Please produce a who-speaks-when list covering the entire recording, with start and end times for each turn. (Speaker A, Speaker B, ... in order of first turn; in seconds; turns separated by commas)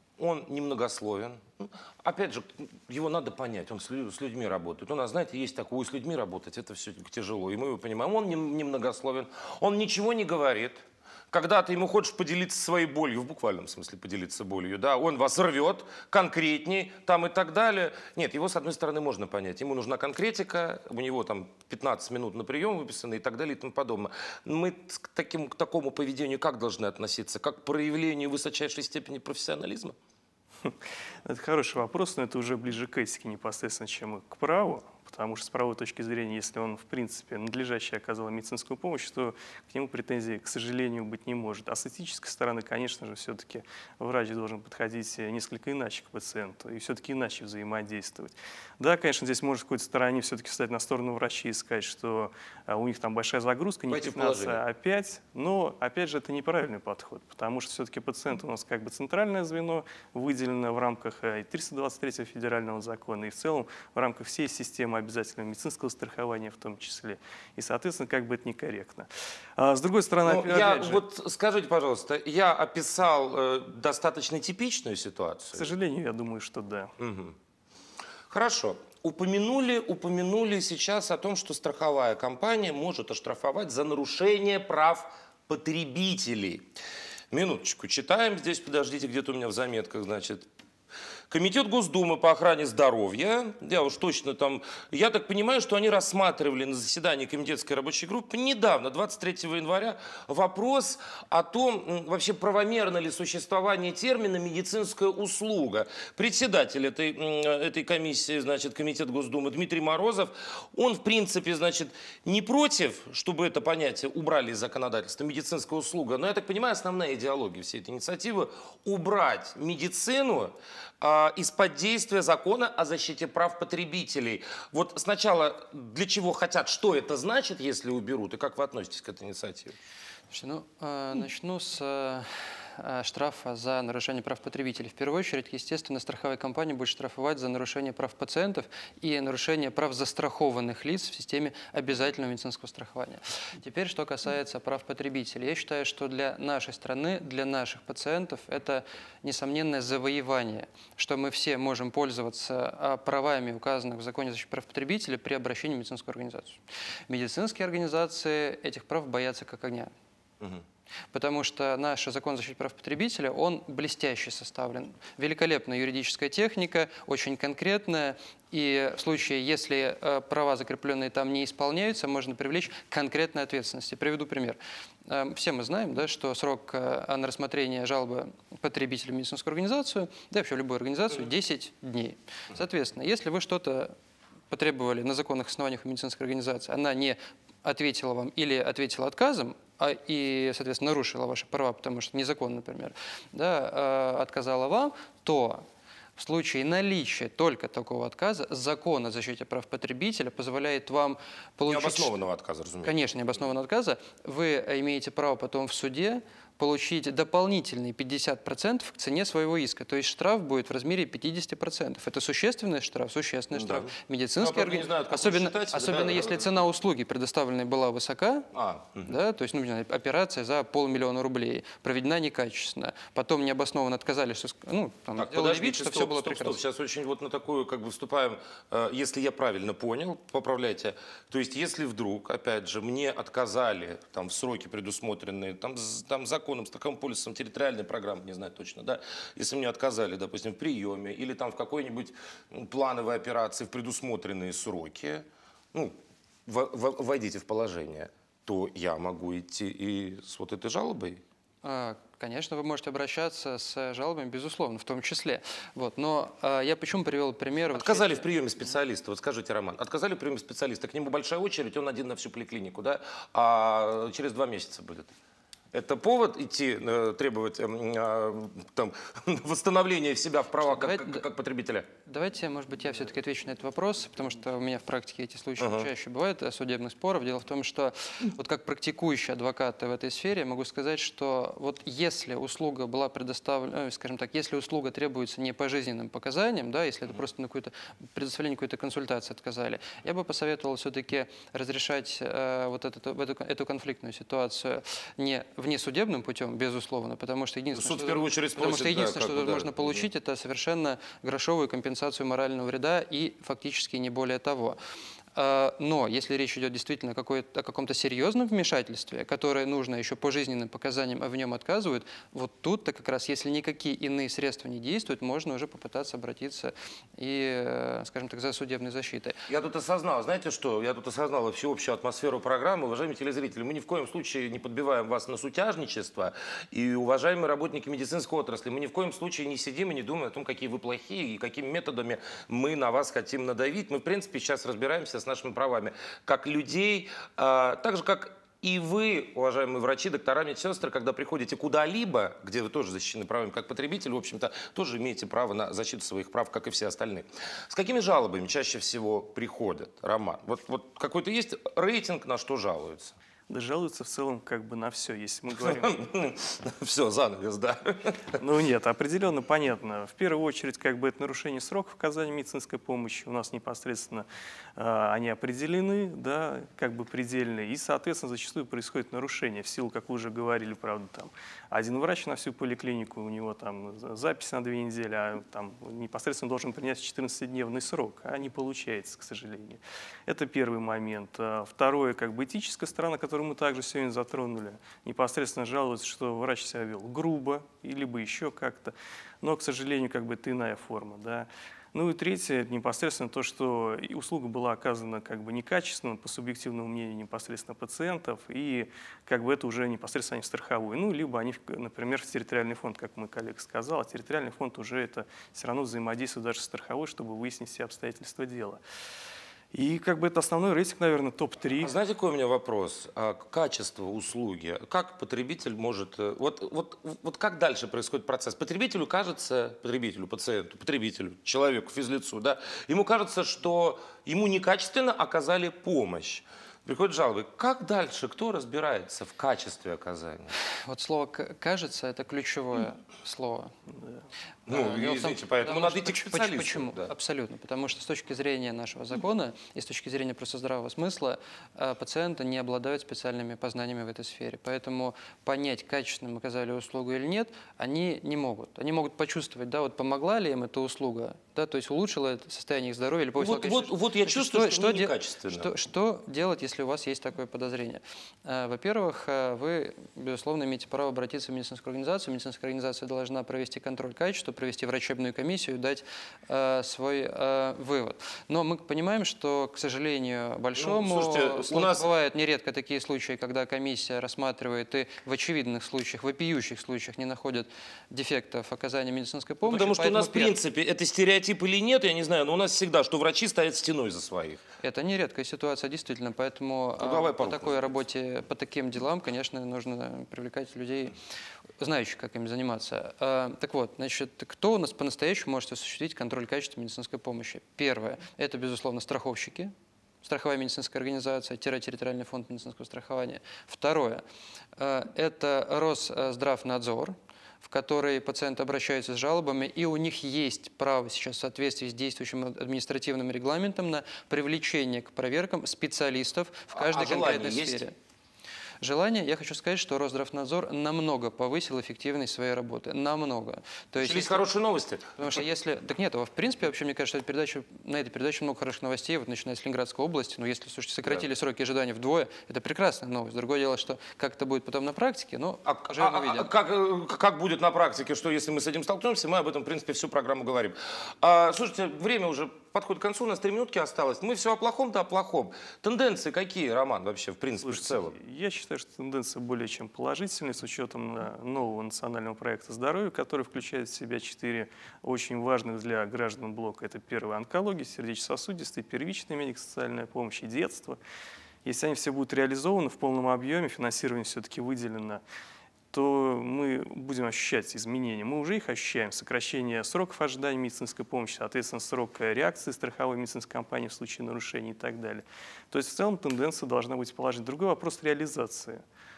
Speaker A: 0.2-30.0, Speaker B: 30.6-71.0, Speaker A: 53.9-54.6, Speaker A: 70.2-75.7, Speaker B: 75.5-76.9, Speaker A: 77.0-77.4, Speaker A: 78.3-86.7, Speaker A: 87.3-90.5, Speaker A: 91.3-129.8, Speaker C: 130.3-159.9, Speaker C: 161.1-183.9, Speaker C: 184.5-195.6, Speaker C: 196.2-202.2, Speaker A: 201.7-202.9, Speaker C: 202.8-218.5, Speaker A: 213.5-216.4, Speaker A: 218.5-219.2, Speaker C: 219.1-226.6, Speaker A: 225.2-251.2, Speaker C: 251.6-258.3, Speaker A: 257.7-265.1, Speaker A: 265.7-271.9, Speaker C: 270.6-271.2, Speaker C: 272.1-304.8, Speaker A: 275.6-275.9, Speaker A: 297.7-300.1, Speaker C: 305.4-319.4, Speaker A: 319.5-353.1, Speaker B: 353.5-356.0, Speaker A: 355.6-358.4, Speaker B: 358.4-408.8, Speaker B: 409.7-411.9, Speaker A: 411.8-430.5, Speaker C: 430.9-433.7, Speaker A: 434.7-437.1, Speaker C: 434.7-480.6, Speaker A: 453.4-455.7, Speaker A: 470.8-472.1, Speaker A: 479.7-484.6, Speaker C: 484.8-491.2, Speaker A: 487.0-488.0, Speaker C: 491.8-499.7, Speaker C: 500.2-504.2, Speaker C: 504.8-517.9, Speaker A: 516.7-517.9, Speaker C: 518.8-524.4, Speaker A: 524.0-525.2, Speaker C: 525.2-536.5, Speaker A: 535.6-548.2, Speaker B: 547.6-561.0, Speaker B: 561.6-565.2, Speaker B: 565.9-578.8